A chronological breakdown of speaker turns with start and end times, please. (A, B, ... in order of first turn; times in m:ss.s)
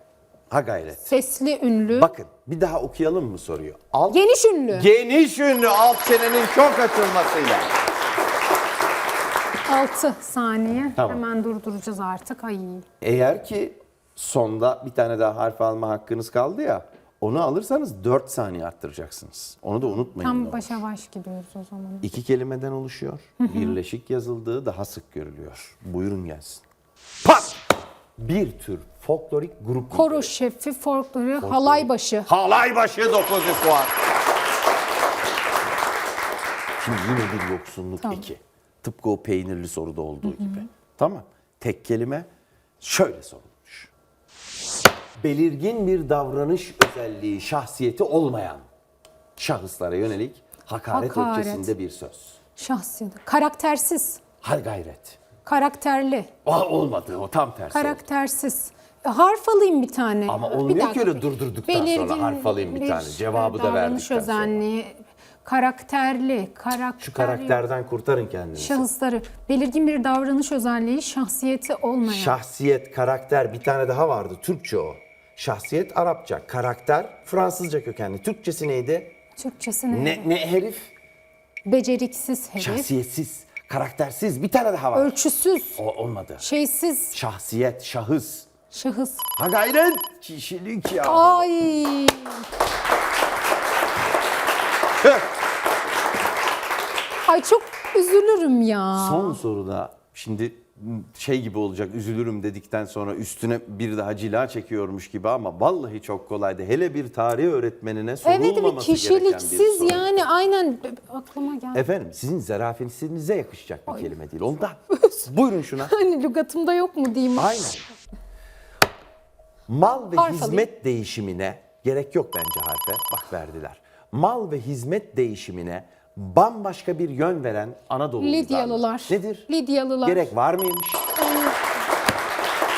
0:00.5-0:01.1 A
0:01.1-0:02.1 B
0:01.9-0:07.7 A
0:04.1-0:04.9 B
0:09.7-0:12.8 B
0:11.0-0:11.2 A
0:13.0-0:20.8 A
0:19.8-0:22.1 B
0:22.0-0:26.6 A
0:23.4-0:23.8 B
0:27.2-0:27.5 A
0:28.2-0:30.3 A
0:29.9-0:32.3 B
0:31.4-0:33.9 A
0:36.8-0:42.3 A
0:38.0-0:38.3 B
0:40.2-0:40.6 B
0:42.8-0:43.9 A
0:45.2-0:48.6 A
0:49.4-0:52.4 A
0:50.9-0:51.7 B
0:52.6-0:54.2 B
0:54.4-0:55.2 A
0:55.4-0:56.3 B
0:56.4-0:58.0 A
0:57.7-1:07.6 B
1:00.3-1:04.6 A
1:07.0-1:08.9 A
1:08.6-1:12.4 B
1:12.0-1:19.1 A
1:19.4-1:20.3 B
1:19.9-1:20.9 A
1:21.6-1:22.9 B
1:22.6-1:25.1 A
1:25.0-1:25.8 B
1:25.8-1:26.4 A
1:26.4-1:27.2 B
1:27.1-1:28.5 A
1:28.7-1:29.3 B
1:29.4-1:31.5 A
1:31.0-1:32.5 B
1:37.2-1:39.4 B
1:39.0-1:50.2 A
1:48.2-1:51.8 B
1:51.7-1:55.9 A
1:53.9-1:54.2 B
1:54.9-1:57.7 B
1:57.4-1:57.8 A
1:59.7-2:09.5 A
2:00.0-2:00.7 B
2:08.2-2:10.3 B
2:10.0-2:11.1 A
2:11.2-2:11.5 B